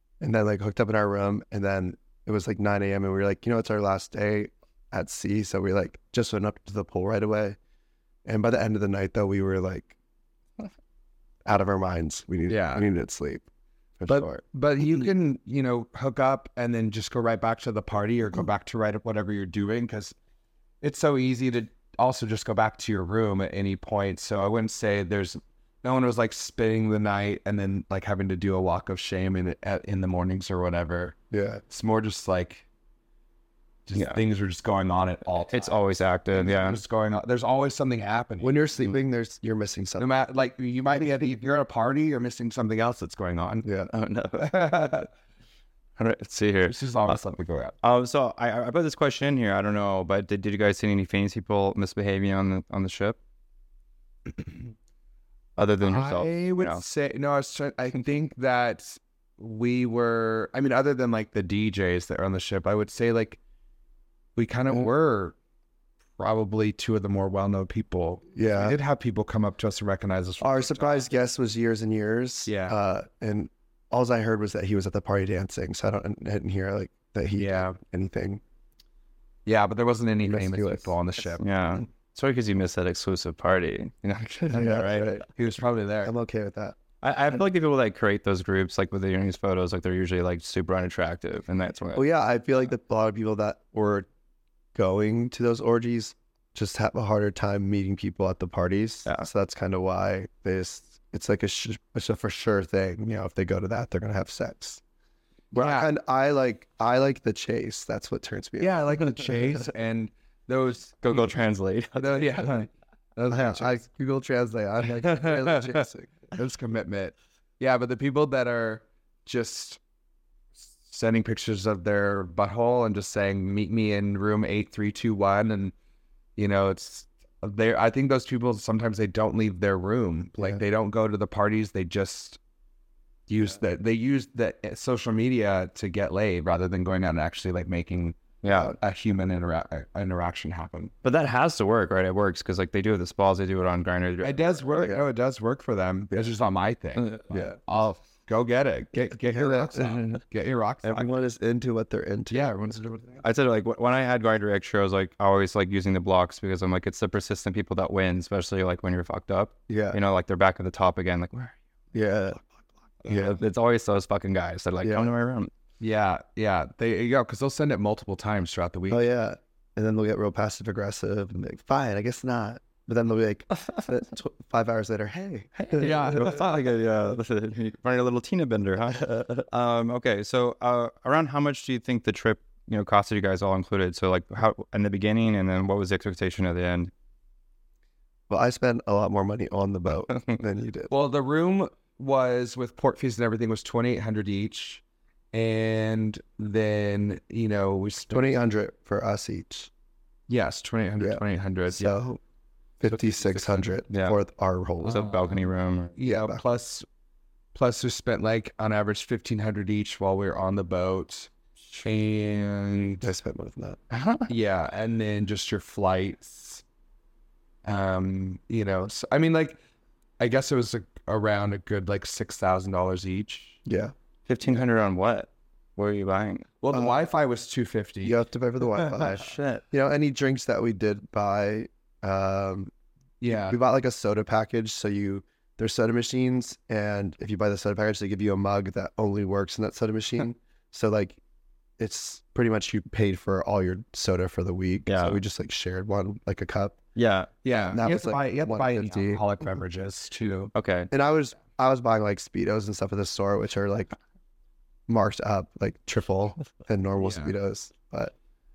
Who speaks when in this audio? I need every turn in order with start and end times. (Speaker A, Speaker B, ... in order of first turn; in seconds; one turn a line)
Speaker A: 0.2-7.6
Speaker A: 8.2-9.9
Speaker A: 11.5-13.4
Speaker B: 12.5-12.9
Speaker A: 14.0-14.4
Speaker B: 14.1-20.1
Speaker B: 20.8-31.2
Speaker A: 31.3-31.6
Speaker B: 31.7-32.7
Speaker B: 33.9-35.8
Speaker C: 34.0-34.2
Speaker C: 35.5-36.8
Speaker B: 36.3-38.6
Speaker A: 38.4-40.1
Speaker B: 40.0-43.7
Speaker A: 43.6-43.9
Speaker C: 43.9-45.0
Speaker B: 44.4-45.1
Speaker C: 46.0-47.2
Speaker B: 46.7-47.8
Speaker C: 47.8-53.2
Speaker C: 55.6-56.8
Speaker B: 55.8-63.4
Speaker B: 64.4-65.4
Speaker B: 66.2-71.1
Speaker A: 68.3-68.8
Speaker A: 70.4-78.4
Speaker B: 72.5-72.8
Speaker B: 77.4-77.8
Speaker B: 79.5-81.5
Speaker A: 80.2-80.9
Speaker C: 81.4-84.9
Speaker B: 84.5-86.1
Speaker A: 84.5-85.2
Speaker A: 86.0-86.8
Speaker C: 87.0-92.0
Speaker A: 92.0-94.1
Speaker A: 94.8-104.8
Speaker B: 105.5-105.9
Speaker A: 105.5-108.8
Speaker B: 108.6-111.4
Speaker C: 111.0-112.6
Speaker B: 112.0-113.8
Speaker A: 113.3-116.1
Speaker B: 115.0-119.8
Speaker B: 120.8-125.7
Speaker B: 126.4-132.4
Speaker B: 133.3-140.9
Speaker C: 138.4-138.8
Speaker C: 141.0-144.7
Speaker B: 144.2-151.1
Speaker A: 149.3-150.0
Speaker A: 150.8-152.5
Speaker B: 152.3-153.2
Speaker C: 153.2-161.6
Speaker A: 159.7-160.0
Speaker A: 161.9-162.4
Speaker C: 163.1-165.5
Speaker A: 163.1-163.4
Speaker A: 164.8-165.1
Speaker B: 165.8-169.0
Speaker A: 168.9-176.0
Speaker C: 175.6-186.9
Speaker B: 175.8-176.6
Speaker A: 188.3-190.9
Speaker B: 190.9-194.8
Speaker B: 195.3-198.3
Speaker A: 198.1-199.7
Speaker B: 200.3-201.9
Speaker A: 201.0-202.2
Speaker A: 202.8-205.1
Speaker B: 202.8-203.7
Speaker C: 203.9-204.2
Speaker B: 204.8-205.4
Speaker C: 204.9-206.0
Speaker B: 206.0-206.9
Speaker A: 206.1-206.4
Speaker B: 207.5-211.3
Speaker B: 211.8-213.1
Speaker A: 213.0-213.8
Speaker C: 213.9-214.3
Speaker B: 214.3-216.6
Speaker B: 217.7-219.6
Speaker B: 220.2-223.6
Speaker A: 223.7-223.9
Speaker C: 224.3-226.5
Speaker B: 226.6-228.2
Speaker A: 228.1-232.7
Speaker C: 228.9-229.6
Speaker B: 233.2-233.6
Speaker A: 233.4-241.2
Speaker A: 241.8-246.8
Speaker C: 244.9-245.2
Speaker C: 247.0-247.3
Speaker B: 247.4-250.5
Speaker A: 247.7-249.2
Speaker C: 250.6-250.9
Speaker A: 250.9-253.9
Speaker A: 254.9-258.1
Speaker B: 257.0-257.3